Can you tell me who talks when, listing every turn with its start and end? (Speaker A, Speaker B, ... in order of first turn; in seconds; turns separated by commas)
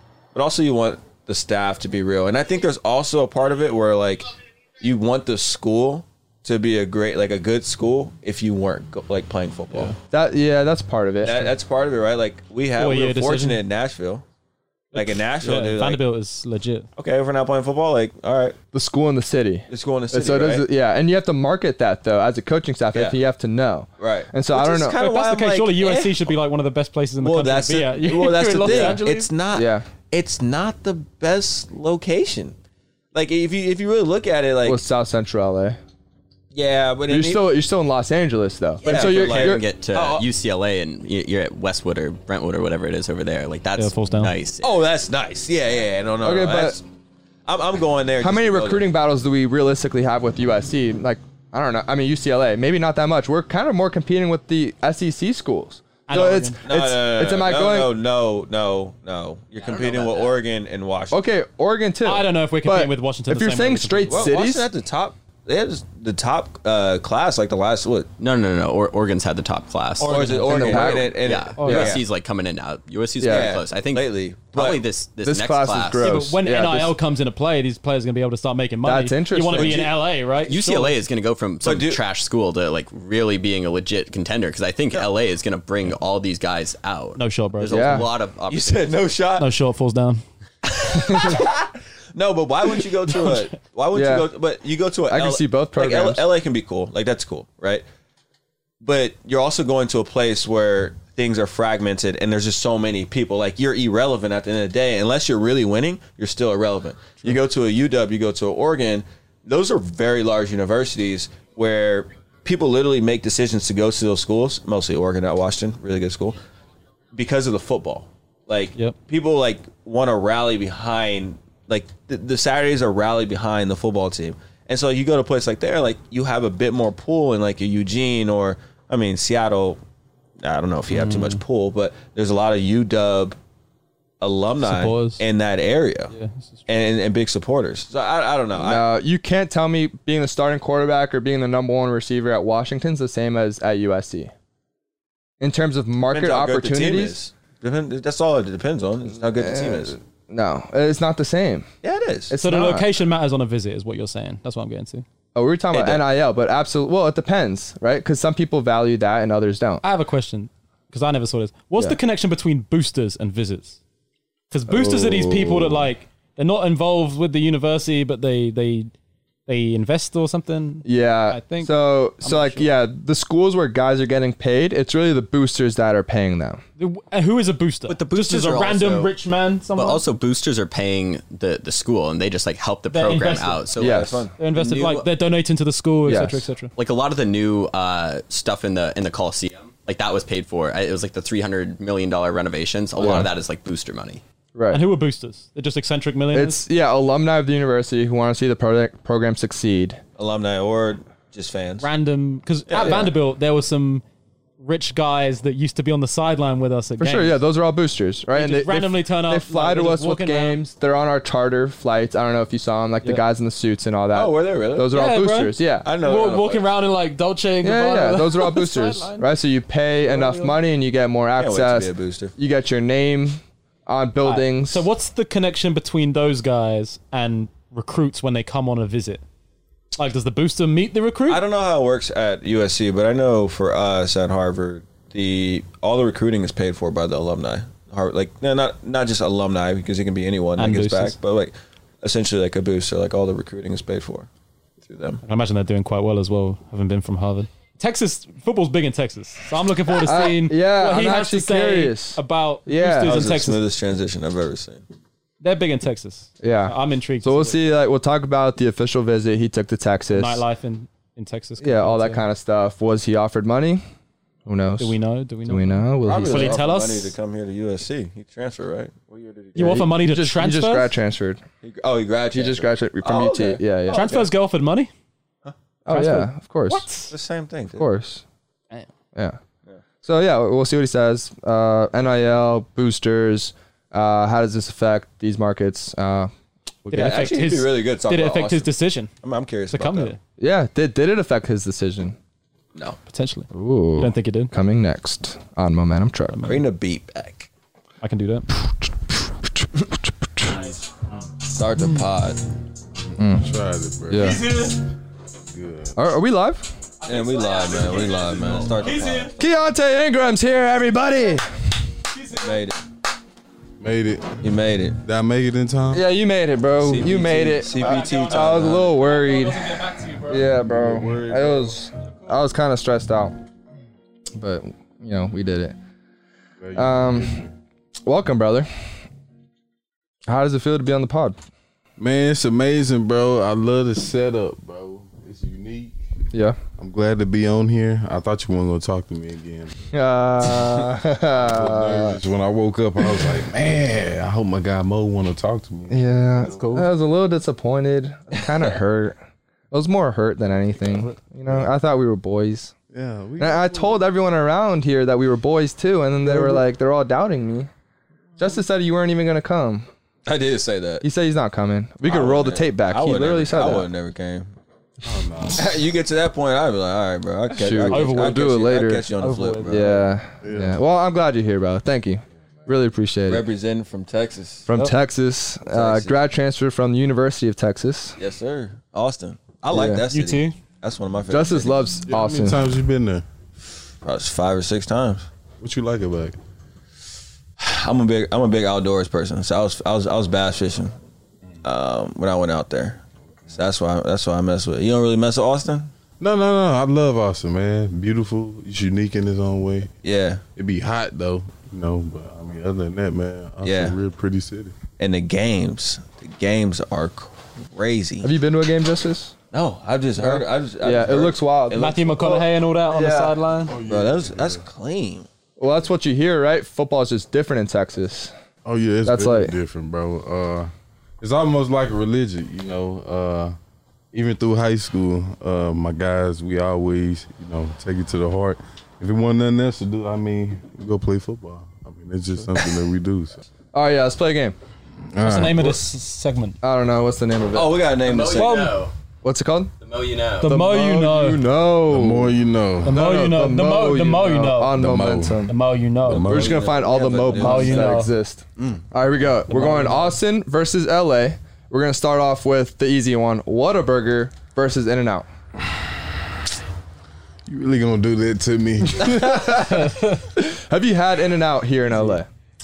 Speaker A: 0.3-9.9, Speaker B: 10.1-11.5, Speaker A: 11.2-14.2, Speaker C: 12.8-13.6, Speaker C: 14.9-16.9, Speaker A: 14.9-16.0, Speaker A: 17.0-18.6, Speaker B: 18.7-25.0, Speaker A: 19.7-20.6, Speaker A: 24.0-26.3, Speaker C: 25.0-29.3, Speaker A: 27.2-32.5, Speaker B: 28.6-29.0, Speaker B: 29.5-29.9, Speaker A: 33.1-34.8, Speaker B: 34.6-35.8, Speaker A: 36.5-37.5, Speaker B: 37.1-39.6, Speaker A: 38.8-40.2, Speaker D: 38.9-44.7, Speaker C: 43.8-44.3, Speaker A: 44.6-46.8, Speaker B: 46.2-46.8, Speaker A: 47.5-48.9, Speaker B: 48.2-57.9, Speaker C: 56.1-56.6, Speaker A: 56.6-61.2, Speaker D: 59.6-60.3, Speaker B: 61.1-64.7, Speaker C: 62.0-64.3, Speaker A: 64.1-68.1, Speaker D: 68.2-76.2, Speaker C: 70.0-71.0, Speaker A: 70.0-72.0, Speaker B: 70.4-71.2, Speaker C: 71.6-72.0, Speaker B: 73.2-73.5, Speaker A: 73.2-74.8, Speaker B: 75.2-77.0, Speaker C: 76.0-81.0, Speaker B: 78.8-79.9, Speaker A: 79.5-79.9, Speaker D: 80.4-89.0, Speaker A: 81.6-82.0, Speaker C: 87.2-87.9, Speaker B: 87.7-88.1, Speaker A: 88.5-89.5, Speaker C: 89.4-90.2, Speaker A: 90.9-97.8, Speaker C: 93.1-93.5, Speaker B: 93.9-94.3, Speaker B: 95.1-96.2, Speaker A: 98.8-116.4, Speaker A: 117.1-129.8, Speaker A: 130.4-133.4, Speaker C: 130.9-131.4, Speaker A: 134.2-136.1, Speaker C: 134.6-135.2, Speaker C: 136.1-136.6, Speaker A: 136.7-138.9, Speaker B: 138.6-144.3, Speaker B: 145.4-147.2, Speaker A: 146.1-150.0, Speaker B: 149.4-151.7, Speaker A: 151.8-152.3, Speaker B: 152.3-152.9, Speaker C: 152.4-155.0, Speaker B: 155.3-159.8, Speaker A: 155.7-156.0, Speaker C: 159.8-163.8, Speaker C: 164.5-168.9, Speaker B: 164.7-165.2, Speaker E: 164.9-165.8, Speaker C: 169.5-172.7, Speaker B: 170.8-176.6, Speaker C: 176.8-180.0, Speaker D: 177.9-179.1, Speaker D: 179.7-185.1, Speaker C: 182.9-183.6, Speaker A: 183.8-184.3, Speaker B: 183.8-184.2, Speaker C: 184.4-186.7, Speaker B: 186.1-186.4, Speaker D: 186.8-194.2, Speaker B: 193.0-193.3, Speaker B: 194.5-194.8, Speaker C: 194.7-196.6, Speaker B: 196.3-200.0, Speaker A: 200.2-201.9, Speaker C: 201.8-204.0, Speaker A: 202.7-203.1, Speaker B: 202.8-203.1, Speaker C: 204.6-207.4, Speaker B: 207.0-215.9, Speaker C: 208.3-210.6, Speaker A: 214.1-214.9, Speaker C: 214.9-219.3, Speaker A: 215.8-216.7, Speaker B: 217.6-224.8, Speaker C: 220.0-220.6, Speaker A: 221.3-222.3, Speaker C: 224.2-229.2, Speaker C: 230.0-231.4, Speaker A: 231.3-244.3, Speaker C: 240.6-241.2, Speaker A: 244.8-245.2, Speaker C: 245.2-253.6, Speaker B: 250.0-253.2, Speaker A: 253.0-254.8, Speaker C: 255.4-257.6, Speaker B: 256.4-260.4, Speaker C: 260.1-262.2, Speaker B: 261.6-263.8, Speaker B: 264.4-266.6, Speaker C: 264.8-267.1, Speaker A: 266.1-269.9, Speaker C: 269.5-270.9, Speaker B: 269.6-271.4, Speaker A: 271.6-274.3, Speaker B: 272.3-274.0, Speaker C: 273.9-274.9, Speaker B: 275.9-276.9, Speaker C: 275.9-277.1, Speaker A: 277.1-277.9, Speaker B: 277.7-278.2, Speaker B: 280.0-286.3, Speaker C: 286.9-289.1, Speaker A: 286.9-290.1, Speaker C: 289.7-290.2, Speaker B: 290.4-292.2, Speaker C: 293.1-294.5, Speaker B: 293.5-296.4, Speaker C: 296.3-296.6, Speaker A: 296.4-297.5, Speaker C: 298.0-298.5, Speaker A: 301.4-302.4, Speaker E: 303.1-304.4, Speaker B: 303.2-303.5, Speaker B: 304.1-304.4, Speaker C: 304.1-304.8, Speaker E: 305.5-305.9, Speaker B: 305.9-306.7, Speaker C: 307.0-309.3, Speaker A: 307.1-309.4, Speaker B: 309.4-311.5, Speaker C: 312.1-312.7, Speaker A: 312.4-312.8, Speaker E: 313.8-314.4, Speaker A: 314.4-315.0, Speaker E: 315.0-316.1, Speaker B: 315.9-323.4, Speaker A: 316.8-318.9, Speaker C: 317.7-320.5, Speaker E: 320.5-321.7, Speaker B: 324.3-325.8, Speaker E: 326.6-327.5, Speaker B: 326.7-327.4, Speaker B: 328.0-328.7, Speaker B: 330.3-331.4, Speaker E: 332.0-336.0, Speaker B: 336.3-336.6, Speaker E: 336.8-339.8, Speaker B: 339.9-342.2, Speaker E: 341.4-346.7, Speaker B: 345.9-349.2, Speaker C: 346.4-346.9, Speaker B: 349.7-352.7, Speaker E: 352.9-354.0, Speaker B: 353.4-357.7, Speaker E: 356.3-356.6, Speaker B: 358.4-359.9, Speaker A: 360.2-361.1, Speaker B: 361.0-363.9, Speaker A: 362.0-364.5, Speaker E: 365.0-365.7, Speaker A: 365.6-370.1, Speaker B: 367.5-369.1, Speaker C: 367.8-368.4, Speaker C: 369.2-369.9, Speaker B: 369.7-373.4, Speaker E: 370.4-370.8, Speaker A: 373.3-374.7, Speaker B: 374.7-378.2, Speaker A: 375.7-376.2, Speaker A: 378.2-381.9, Speaker B: 379.7-380.0, Speaker C: 380.1-380.6, Speaker B: 381.3-382.6, Speaker E: 382.1-383.2, Speaker A: 384.0-385.3, Speaker E: 385.6-386.4, Speaker A: 387.6-390.9, Speaker A: 391.6-395.9, Speaker E: 396.2-399.9, Speaker A: 400.0-400.4, Speaker E: 400.6-404.7, Speaker A: 403.6-404.0, Speaker A: 405.0-408.3, Speaker B: 408.2-409.3, Speaker A: 409.5-412.2, Speaker B: 410.2-413.4, Speaker C: 411.7-413.8, Speaker E: 413.7-414.6, Speaker A: 413.9-415.3, Speaker B: 415.6-418.3, Speaker E: 418.6-423.5, Speaker B: 419.0-419.5, Speaker E: 424.1-433.4, Speaker B: 433.7-434.6, Speaker E: 435.1-435.8, Speaker C: 435.2-436.6, Speaker B: 436.6-437.9, Speaker A: 437.5-438.7, Speaker D: 438.0-438.9, Speaker C: 438.4-438.8, Speaker B: 439.2-439.7, Speaker D: 439.8-440.5, Speaker B: 440.4-442.3, Speaker C: 440.4-441.4, Speaker E: 441.9-443.0, Speaker C: 442.8-444.8, Speaker B: 442.9-445.5, Speaker E: 444.7-445.5, Speaker C: 445.5-446.6, Speaker E: 446.0-446.6, Speaker A: 446.2-448.0, Speaker B: 446.2-455.3, Speaker C: 447.3-448.1, Speaker A: 448.6-448.8, Speaker C: 449.5-450.1, Speaker E: 457.4-459.5, Speaker B: 458.9-462.3, Speaker C: 459.8-460.1